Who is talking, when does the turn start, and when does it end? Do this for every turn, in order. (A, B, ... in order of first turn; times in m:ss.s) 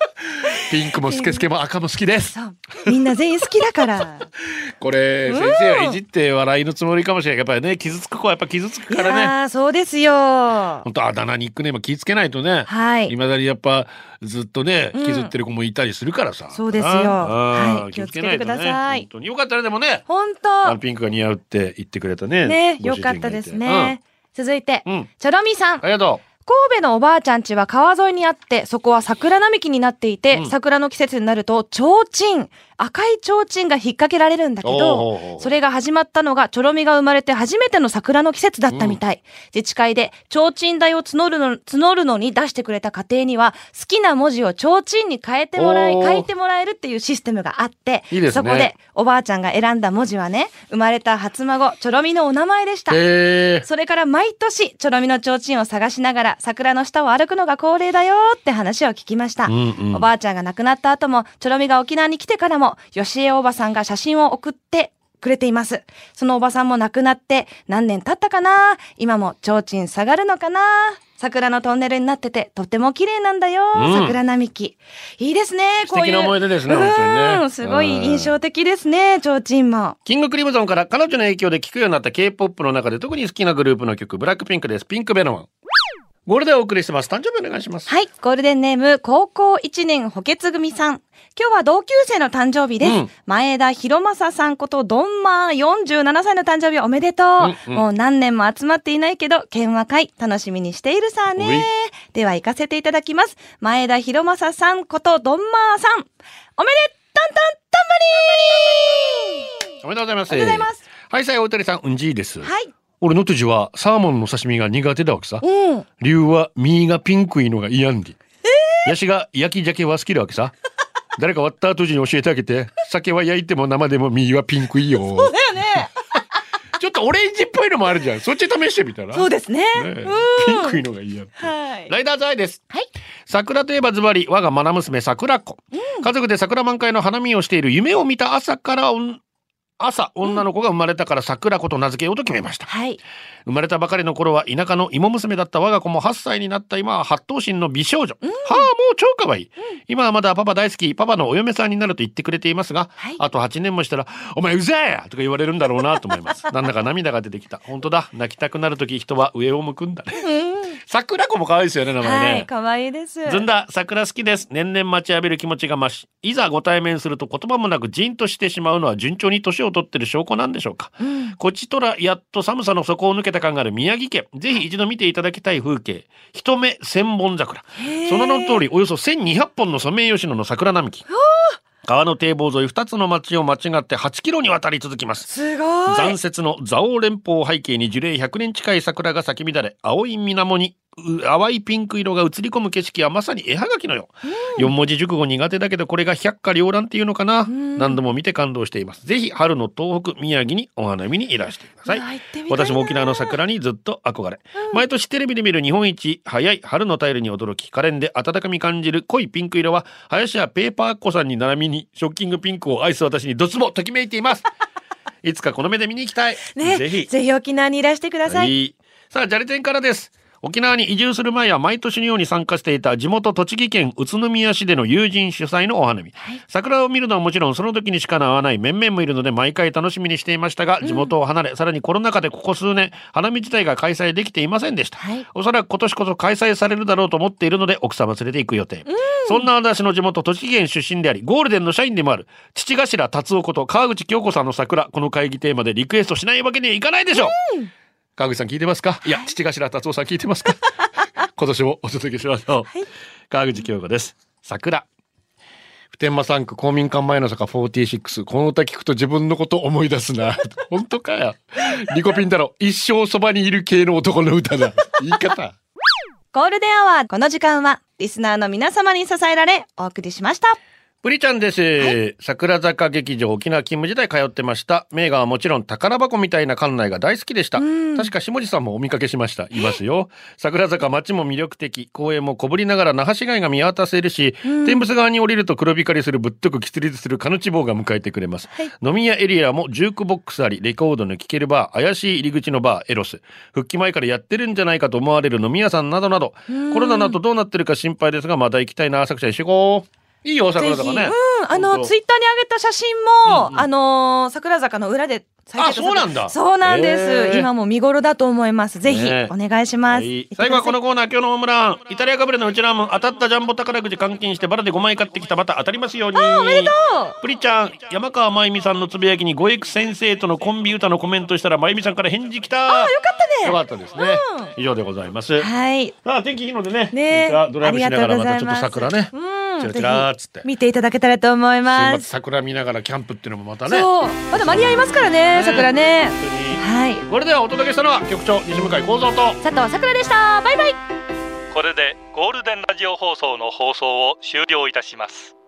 0:00.4-0:03.0 A
0:01.0-0:01.4 B
0:02.3-0:04.3 B
0:04.6-0:09.3 A
0:05.3-0:06.0 B
0:08.9-0:10.8 B
0:10.8-0:20.0 A
0:12.7-0:13.1 B
0:14.9-0:15.3 B
0:16.5-0:19.0 B
0:20.1-0:20.8 B
0:20.6-0:24.0 A
0:22.4-0:25.8 B
0:25.8-0:26.2 A
0:26.4-0:53.0 B
0:34.6-0:35.5 A
0:38.7-0:39.0 A
0:45.6-0:46.3 A
0:48.1-0:48.7 A
0:52.9-0:53.7 A
0:53.6-1:20.0 B
0:59.5-1:00.0 A
1:13.7-1:14.2 A
1:15.9-1:18.3 A
1:20.0-1:25.5 A
1:26.2-1:27.9 A
1:27.9-1:49.7 B
1:32.8-1:33.1 A
1:37.4-1:37.8 A
1:41.4-1:41.7 A
1:49.8-1:52.5 A
1:50.3-1:50.8 B
1:52.4-1:52.7 B
1:53.0-1:55.4 A
1:55.4-1:55.8 B
1:56.0-1:58.2 A
1:58.4-1:58.9 B
1:58.8-2:00.5 A
2:01.2-2:06.2 A
2:05.1-2:05.9 B
2:06.8-2:12.6 A
2:09.1-2:10.8 B
2:11.4-2:11.9 B
2:13.3-2:19.2 A
2:15.7-2:16.1 B
2:19.8-2:22.7 A
2:22.7-2:23.0 B
2:23.4-2:42.5 A
2:28.2-2:28.7 B
2:40.2-2:40.8 B
2:42.0-2:43.4 B
2:43.3-3:01.0 A
2:51.0-2:51.4 B
2:57.8-2:58.6 B
3:01.1-3:01.6 B
3:01.8-3:05.3 A
3:05.3-3:06.2 B
3:05.9-3:34.4 A
3:14.3-3:14.7 B
3:17.5-3:18.0 B
3:21.9-3:23.4 B
3:35.2-3:37.1 A
3:36.5-3:38.5 B
3:38.2-4:07.4 A
3:50.8-3:51.1 B
3:55.0-3:55.2 B
3:58.9-3:59.5 B
4:07.1-4:07.7 B
4:08.2-4:10.7 A
4:11.3-4:12.7 A
4:13.3-4:14.9 A
4:15.9-4:25.6 A
4:26.3-4:30.6 B
4:31.0-5:01.9 A
4:37.6-4:38.1 B
4:44.4-4:44.8 B
4:56.5-4:57.2 B
5:00.6-5:10.8 B
5:03.2-5:03.6 A
5:05.6-5:07.5 A
5:08.8-5:09.3 A
5:09.9-5:25.5 A
5:16.2-5:17.1 B
5:22.7-5:24.5 B
5:25.4-5:25.9 B
5:26.0-5:30.4 A
5:26.9-5:32.0 B
5:31.7-5:39.4 A
5:33.6-5:37.0 B
5:39.4-5:40.8 B
5:41.5-5:45.3 C